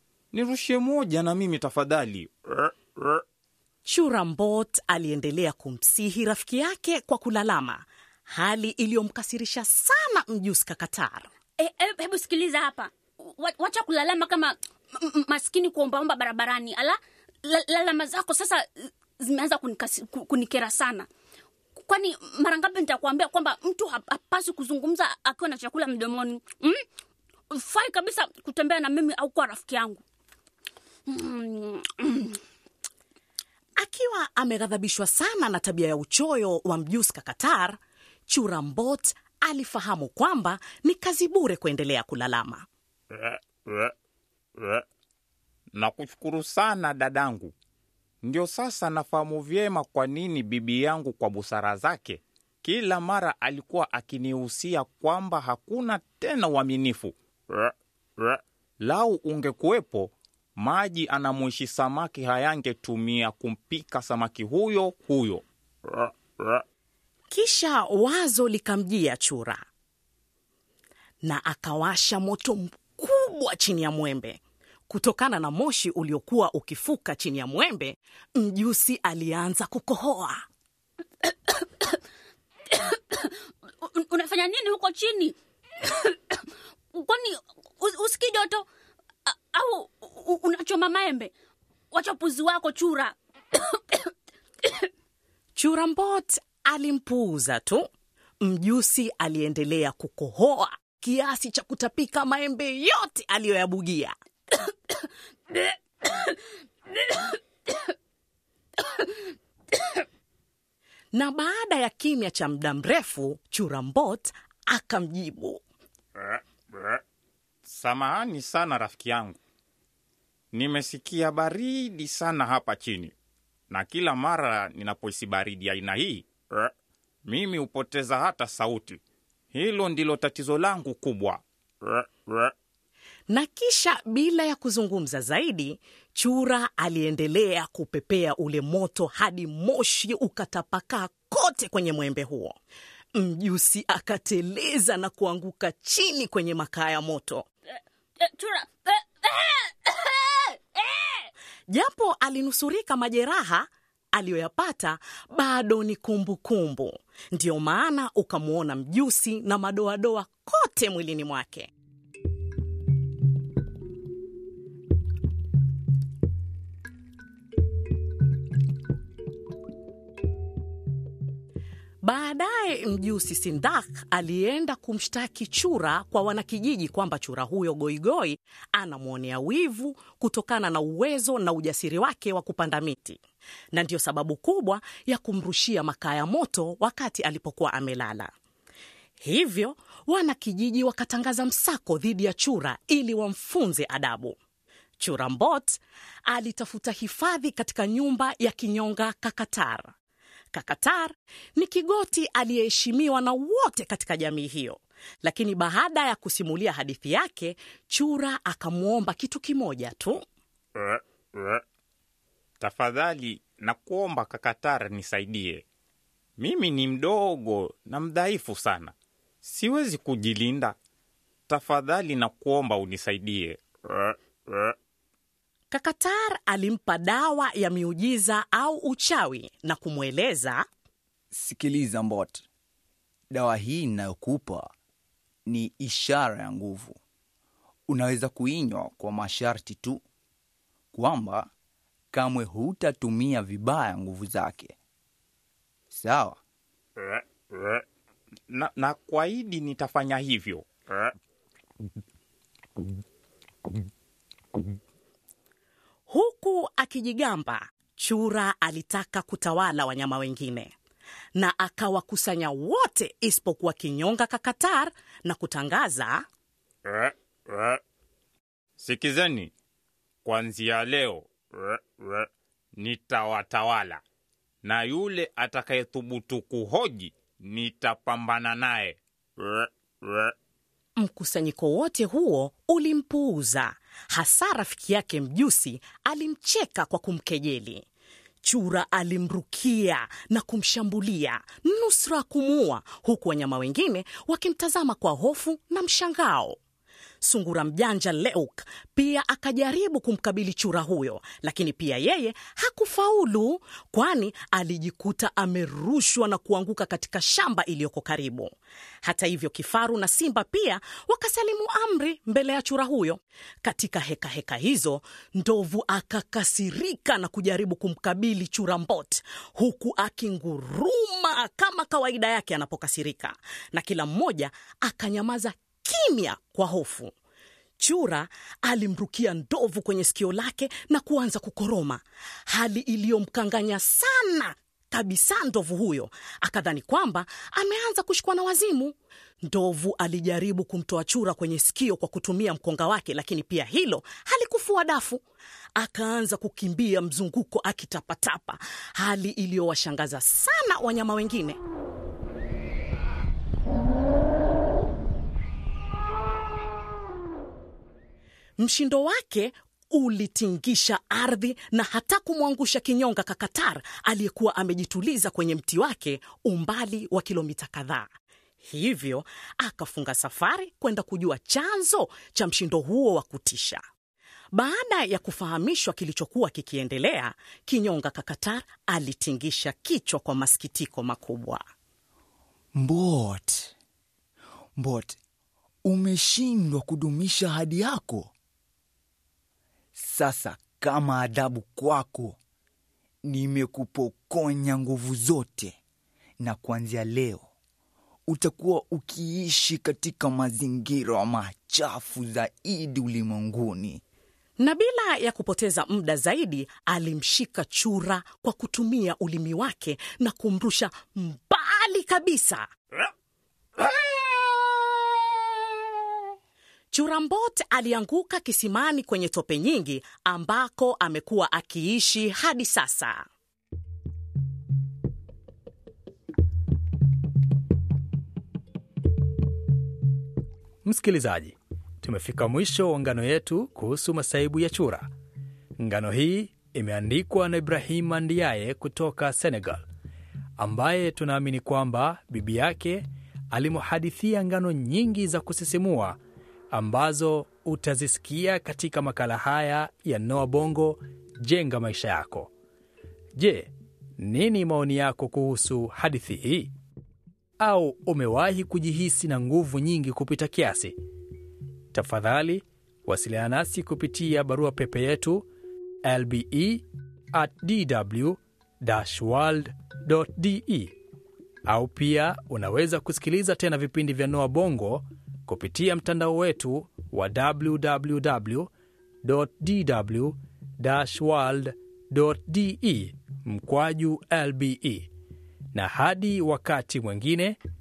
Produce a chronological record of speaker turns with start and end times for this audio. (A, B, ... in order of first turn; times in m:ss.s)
0:00.3-0:03.2 A
0:03.8-0:11.3 B
0:11.6-0:21.1 C
0:21.8-0:26.8 C
0:27.5-0:30.0 C
0:31.1-0:32.4 C
0:33.8-0:42.7 B
0:43.1-0:43.9 A
0:44.6-0:44.8 A
0:45.8-0:47.5 A
0:48.2-1:06.6 A
1:07.3-1:09.6 B
1:11.2-1:20.4 B
1:21.2-1:22.0 C
1:22.7-1:28.6 C
1:29.2-1:31.3 C
1:31.9-1:34.1 C
1:35.6-1:37.9 B
1:38.4-1:44.1 B
1:45.5-1:46.3 C
1:47.0-1:47.8 C
1:48.8-1:49.1 C
1:51.1-1:55.6 B
1:56.2-1:57.0 A
1:57.6-1:59.4 A
2:00.5-2:03.1 A
2:03.7-2:06.7 A
2:07.2-2:09.0 A
2:09.5-2:12.5 A
2:13.3-2:22.6 B
2:23.1-2:27.5 B
2:28.2-2:31.3 C
2:31.7-2:41.7 B
2:52.0-3:08.3 B
3:09.2-3:14.4 B
3:15.0-3:19.9 B
3:20.5-3:30.2 B
3:30.8-3:31.6 A
3:32.6-3:35.6 A
3:36.4-3:40.8 A
3:41.5-3:44.7 A
3:45.7-3:50.6 B
3:51.3-3:52.4 D
3:53.3-3:54.7 D
3:55.4-3:57.0 D
3:57.9-4:00.0 D
4:00.9-4:01.5 D
4:02.1-4:04.8 D
4:05.9-4:06.4 D
4:07.0-4:07.8 A
4:08.5-4:11.1 A
4:16.1-4:20.7 B
4:21.3-4:26.2 B
4:26.9-4:27.8 A
4:28.8-4:29.5 A
4:30.2-4:34.0 A
4:34.6-4:40.3 A
4:41.0-4:47.9 B
4:48.4-4:56.6 B
4:57.2-5:08.5 B
5:09.0-5:27.1 B
5:27.8-5:45.2 B
5:45.8-5:51.6 B
5:58.6-6:08.1 B
6:08.6-6:13.8 B
6:14.5-6:21.6 B
6:22.8-6:23.7 D
6:24.8-6:25.2 D
6:25.8-6:28.3 D
6:30.0-6:32.4 D
6:33.2-6:35.8 D
6:36.4-6:37.5 D
6:38.3-6:44.0 D
6:44.6-6:52.7 B
6:56.9-7:03.3 B
7:10.8-7:15.0 E
7:15.8-7:19.8 E
7:20.6-7:26.2 E
7:26.7-7:32.5 E
7:33.4-7:36.7 E
7:37.6-7:41.0 E
7:41.9-7:45.5 E
7:46.0-7:50.9 E
7:51.6-7:58.7 E
7:59.2-8:05.1 E
8:05.7-8:07.6 E